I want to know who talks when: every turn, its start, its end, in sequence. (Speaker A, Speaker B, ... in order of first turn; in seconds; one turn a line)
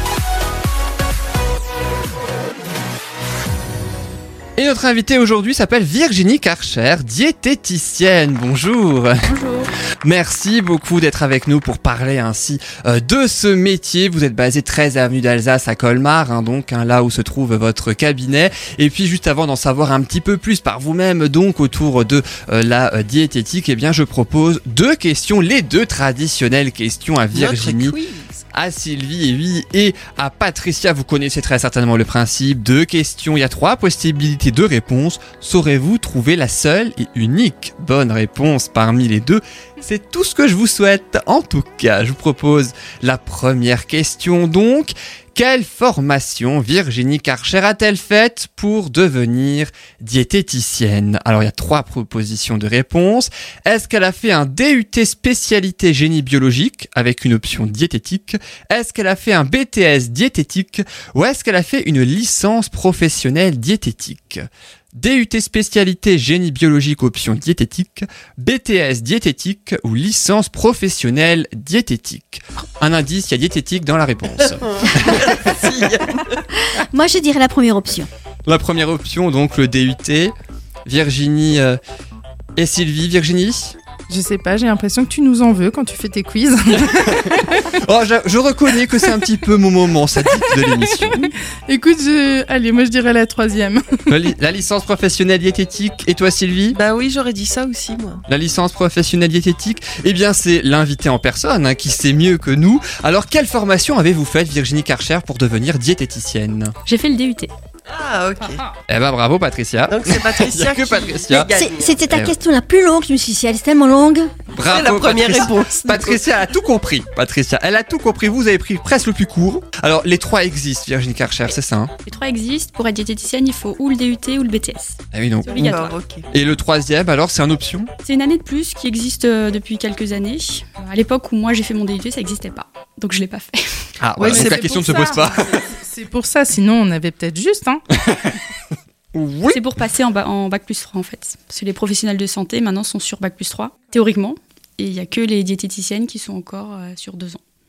Speaker A: 4.6-9.2
Speaker B: 9.2-9.7
Speaker A: 10.0-28.0
Speaker C: 27.3-28.4
Speaker A: 28.5-75.3
Speaker C: 74.8-76.4
Speaker D: 76.6-78.1
Speaker A: 78.5-80.3
Speaker A: 80.9-81.8
Speaker A: 82.6-83.8
Speaker E: 84.1-87.8
Speaker A: 86.9-91.3
Speaker E: 90.3-91.2
Speaker E: 91.7-94.1
Speaker A: 94.1-96.8
Speaker C: 96.7-98.2
Speaker A: 98.3-106.8
Speaker B: 106.9-107.5
Speaker C: 107.9-108.7
Speaker A: 108.9-111.5
Speaker C: 109.9-112.0
Speaker D: 111.5-114.4
Speaker A: 112.1-112.3
Speaker A: 114.5-121.9
Speaker C: 114.7-116.3
Speaker B: 122.1-126.0
Speaker A: 125.1-125.8
Speaker C: 125.5-126.3
Speaker A: 126.3-127.9
Speaker B: 128.0-133.7
Speaker A: 134.0-135.7
Speaker E: 134.2-137.8
Speaker B: 134.3-134.7
Speaker A: 138.1-138.4
Speaker A: 139.1-139.6
Speaker B: 139.5-147.4